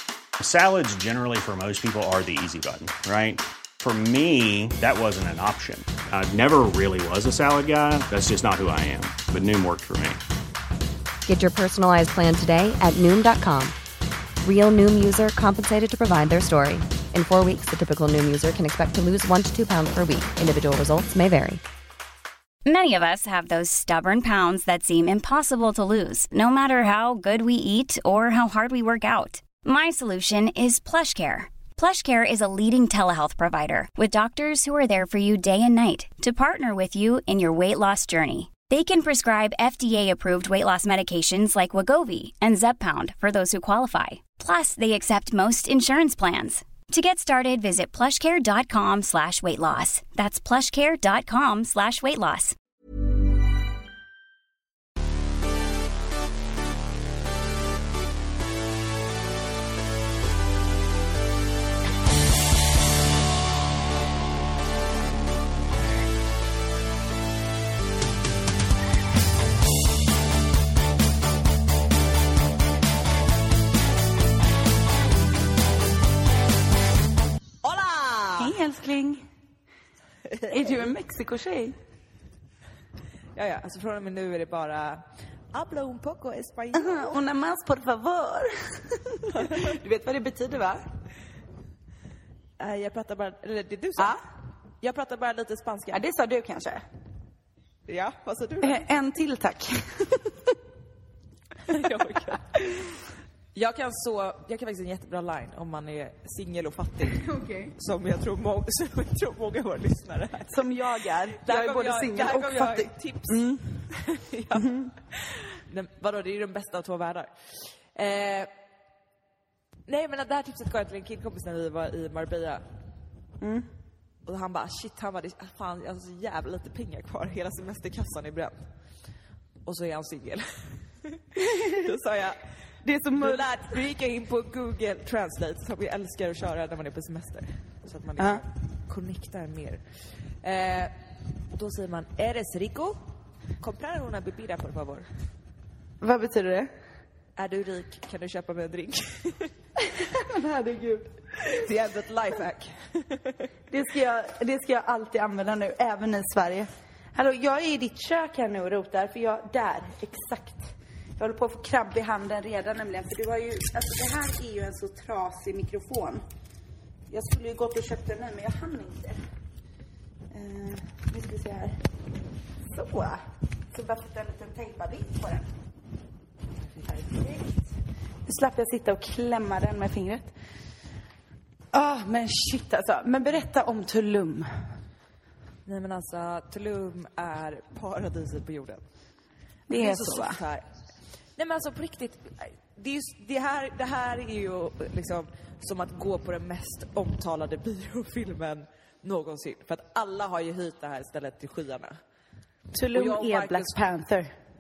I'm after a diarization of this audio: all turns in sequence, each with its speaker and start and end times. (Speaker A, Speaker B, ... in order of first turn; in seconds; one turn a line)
Speaker A: 0.4-10.2
Speaker B: 11.3-13.8
Speaker B: 14.4-21.6
Speaker C: 22.7-52.5
Speaker D: 77.6-78.5
Speaker E: 78.4-79.2
Speaker D: 80.3-80.9
Speaker E: 80.5-81.8
Speaker D: 83.3-87.2
Speaker E: 86.8-90.9
Speaker D: 92.6-94.2
Speaker D: 94.8-96.0
Speaker E: 95.9-96.8
Speaker D: 97.9-98.8
Speaker E: 98.6-100.6
Speaker D: 101.7-102.6
Speaker D: 103.5-107.2
Speaker E: 107.1-107.7
Speaker D: 107.8-110.8
Speaker E: 110.5-113.8
Speaker D: 111.3-118.5
Speaker E: 114.6-114.9
Speaker D: 119.9-122.6
Speaker E: 123.4-123.7
Speaker D: 124.3-128.7
Speaker D: 129.7-132.5
Speaker E: 132.8-133.5
Speaker D: 133.2-140.9
Speaker E: 138.2-138.4
Speaker D: 141.5-143.0
Speaker D: 143.6-145.1
Speaker E: 146.0-146.7
Speaker D: 147.4-149.5
Speaker E: 149.8-151.7
Speaker D: 151.5-153.5
Speaker E: 153.7-166.2
Speaker E: 167.1-169.2
Speaker E: 170.3-171.8
Speaker E: 172.6-175.5
Speaker E: 176.8-177.7
Speaker E: 178.3-180.3
Speaker E: 181.7-184.5
Speaker D: 185.7-188.8
Speaker E: 189.7-190.4
Speaker D: 189.7-190.7
Speaker D: 191.4-202.0
Speaker E: 202.7-204.3
Speaker D: 202.9-203.8